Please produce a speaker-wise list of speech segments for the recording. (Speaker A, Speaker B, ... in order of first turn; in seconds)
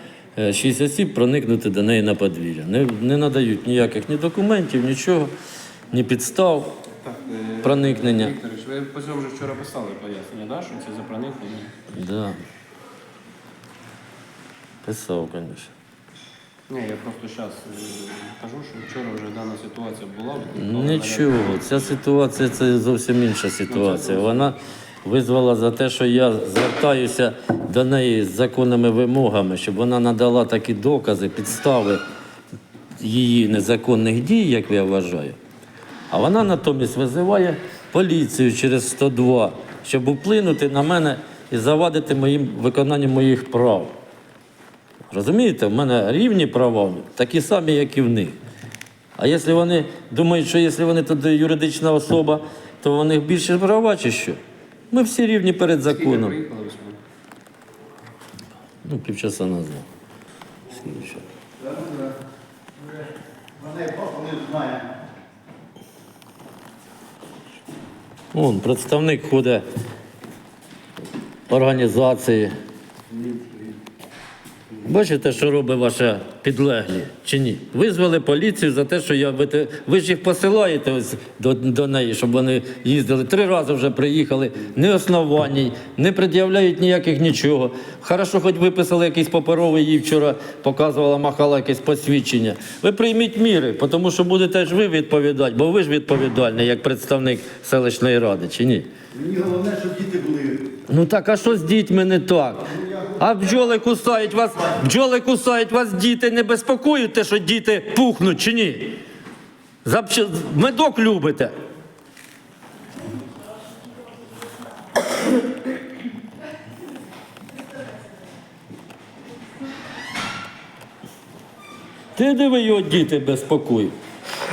Speaker A: 0.3-5.3, 5.9-6.8, 7.6-8.3, 11.9-12.4, 14.8-15.7, 20.6-32.0, 33.0-35.4, 36.1-43.9, 45.1-48.4, 49.2-54.4, 54.9-56.4, 58.8-59.9, 60.7-61.2, 68.3-69.6, 71.5-72.5, 74.8-98.9, 100.8-109.0, 109.8-111.5, 122.2-123.9
Speaker B: 7.0-11.7, 16.7-21.9, 23.7-24.5, 55.8-57.0
Speaker C: 63.8-64.8, 99.2-100.5